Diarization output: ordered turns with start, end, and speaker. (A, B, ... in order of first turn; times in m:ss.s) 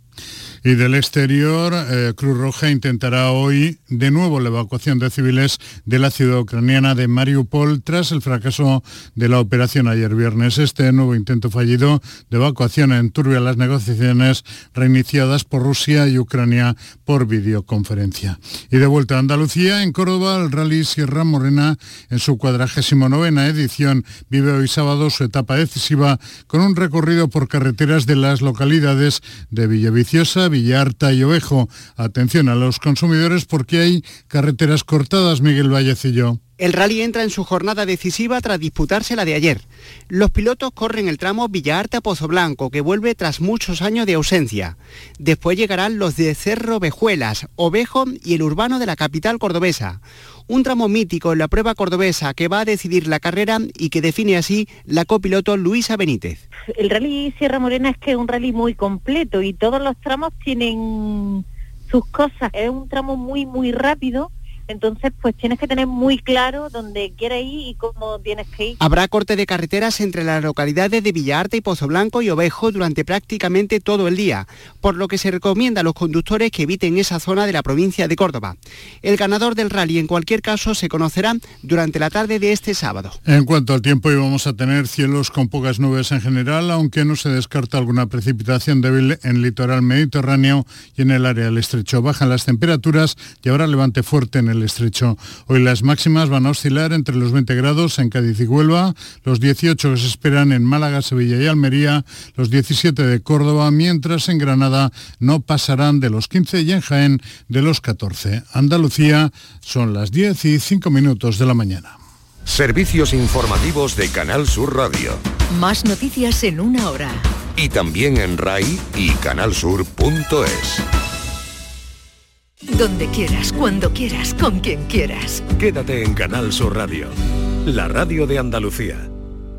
0:00.6-0:36.4 A
0:36.6-0:56.4 B
0:56.7-1:08.8 C
1:08.8-1:23.2 B
1:23.3-1:52.0 A
1:52.5-1:54.3 D
1:55.5-1:57.3 E
1:58.5-2:00.6 D
2:02.7-2:05.4 E
2:05.5-2:09.1 D